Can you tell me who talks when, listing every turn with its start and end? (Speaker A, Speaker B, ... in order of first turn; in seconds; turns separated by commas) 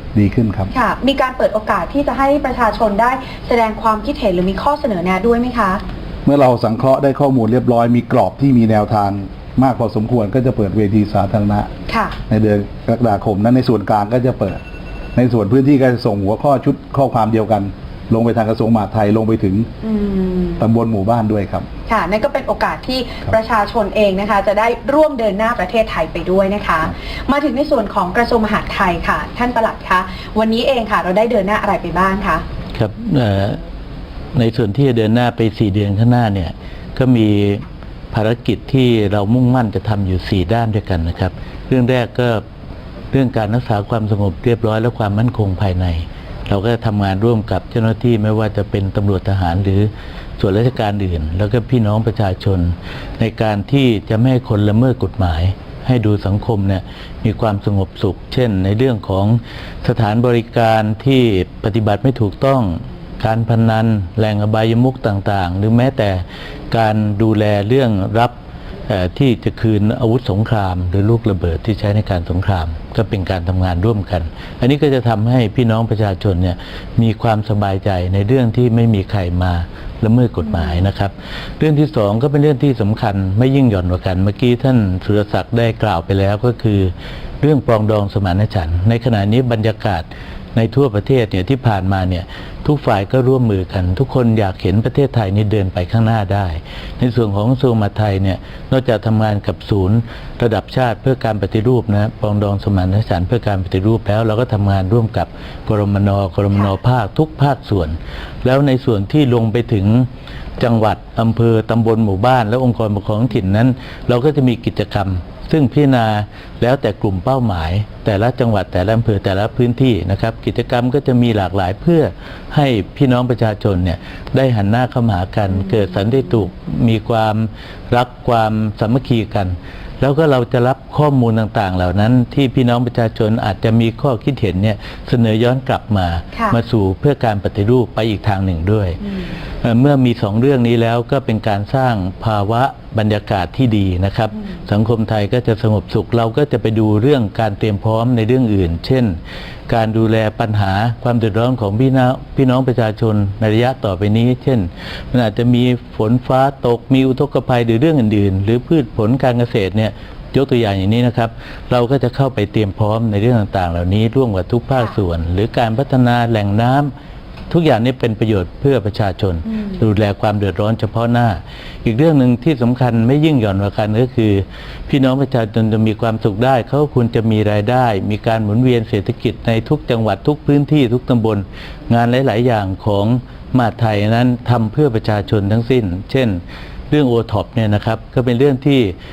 Speaker A: 0.1-0.7, Speaker B: 0.7-5.8, Speaker A: 6.3-11.7, Speaker B: 11.9-12.2, Speaker A: 12.3-14.6, Speaker A: 15.2-19.7, Speaker B: 19.8-20.6, Speaker A: 20.6-21.7, Speaker B: 21.9-32.4, Speaker C: 32.8-33.6, Speaker C: 34.4-42.4, Speaker C: 43.1-68.3, Speaker C: 68.9-90.0, Speaker C: 90.5-139.0, Speaker B: 139.0-139.3, Speaker C: 139.6-149.2, Speaker C: 149.7-166.9, Speaker C: 167.5-188.9, Speaker B: 169.5-169.8